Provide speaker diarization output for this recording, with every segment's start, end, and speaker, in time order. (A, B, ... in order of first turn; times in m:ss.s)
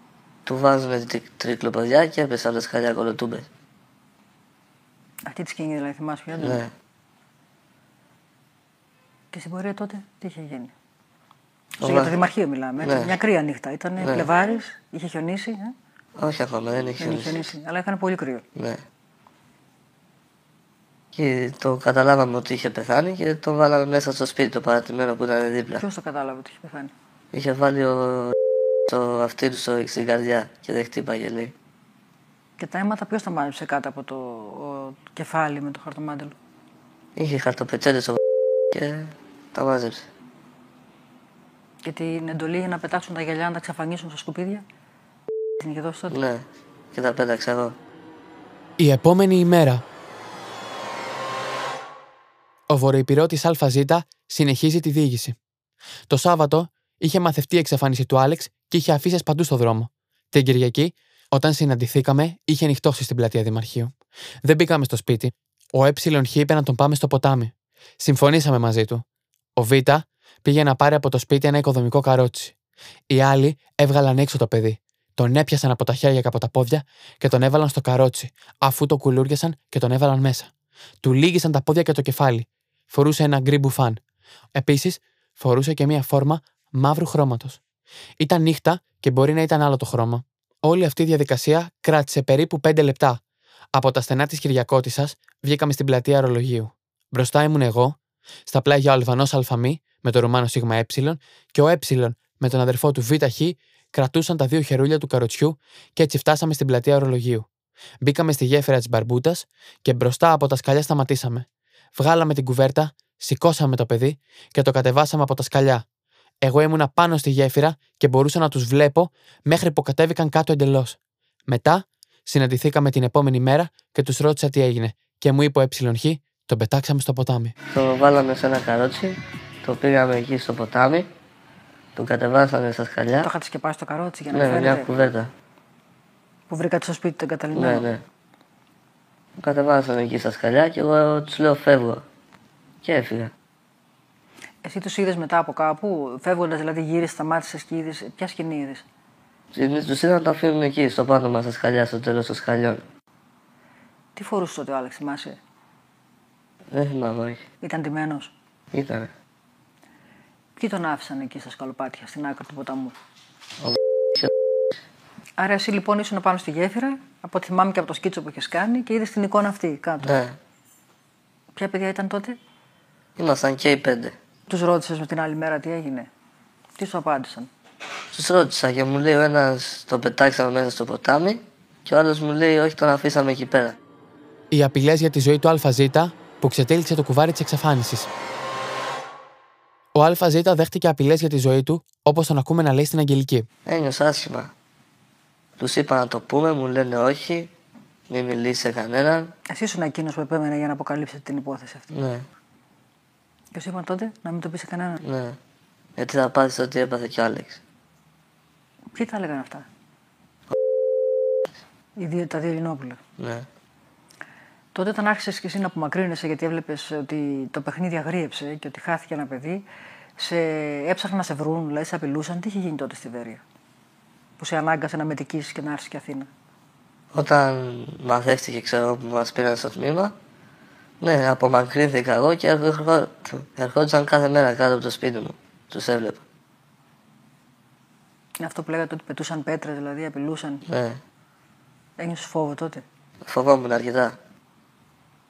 0:00.4-0:03.4 A
0:05.2-0:06.6 B
0:06.4-0:06.7 A
0:09.3-0:10.7 B
0:11.8-0:15.7 B
0:11.8-0:12.1 A
0:12.8-0:13.1 A
0:14.0-0:14.3 A
0:16.2-0:17.3 A
0:17.0-0:18.4 B
0:18.6-0:18.8 A
0:21.1-0:25.8 A
0:25.7-0:26.9 B
0:27.3-0:28.3 A
0:28.9-0:31.5 A
0:32.6-0:36.3 B
0:37.2-0:38.2 A
0:38.7-0:40.1 A
0:41.8-0:44.6 B
0:45.6-0:46.2 B
0:46.1-0:47.8 A
0:48.8-0:49.8 C
0:52.7-0:55.4 C
0:56.1-1:09.0 C
1:09.6-1:12.5 C
1:13.1-1:24.0 C
1:24.5-1:27.6 C
1:28.2-1:33.2 C
1:33.7-1:47.5 C
1:48.0-1:55.8 C
1:56.4-2:07.5 C
2:07.7-2:11.1 A
2:12.0-2:13.3 A
2:13.2-2:14.9 B
2:14.3-2:15.3 A
2:16.5-2:17.9 B
2:17.5-2:18.0 A
2:19.4-2:22.0 A
2:22.8-2:23.3 A
2:24.6-2:28.8 B
2:29.5-2:32.8 A
2:34.2-2:35.4 B
2:36.7-2:37.4 A
2:37.6-2:38.3 B
2:38.7-2:39.1 A
2:40.6-2:42.9 B
2:43.6-2:44.3 A
2:45.4-2:50.1 B
2:50.0-2:50.4 A
2:51.6-2:52.4 B
2:53.2-2:54.1 A
2:54.5-2:56.1 B
2:56.8-2:57.5 B
2:58.1-3:03.8 A
3:04.5-3:08.1 C
3:09.9-3:13.5 C
3:13.6-3:14.5 A
3:15.6-3:17.5 A
3:18.1-3:19.3 A
3:19.5-3:21.9 B
3:21.9-3:22.2 A
3:23.5-3:25.0 B
3:25.0-3:25.4 A
3:26.0-3:27.6 A
3:28.9-3:29.6 B
3:32.0-3:33.0 B
3:33.2-3:33.4 A
3:34.7-3:39.6 B
3:40.2-3:43.4 B
3:44.4-3:46.3 B
3:47.1-3:50.1 A
3:51.0-3:56.2 A
3:58.4-4:00.6 B
4:00.7-4:01.0 A
4:02.0-4:02.8 B
4:03.2-4:04.2 A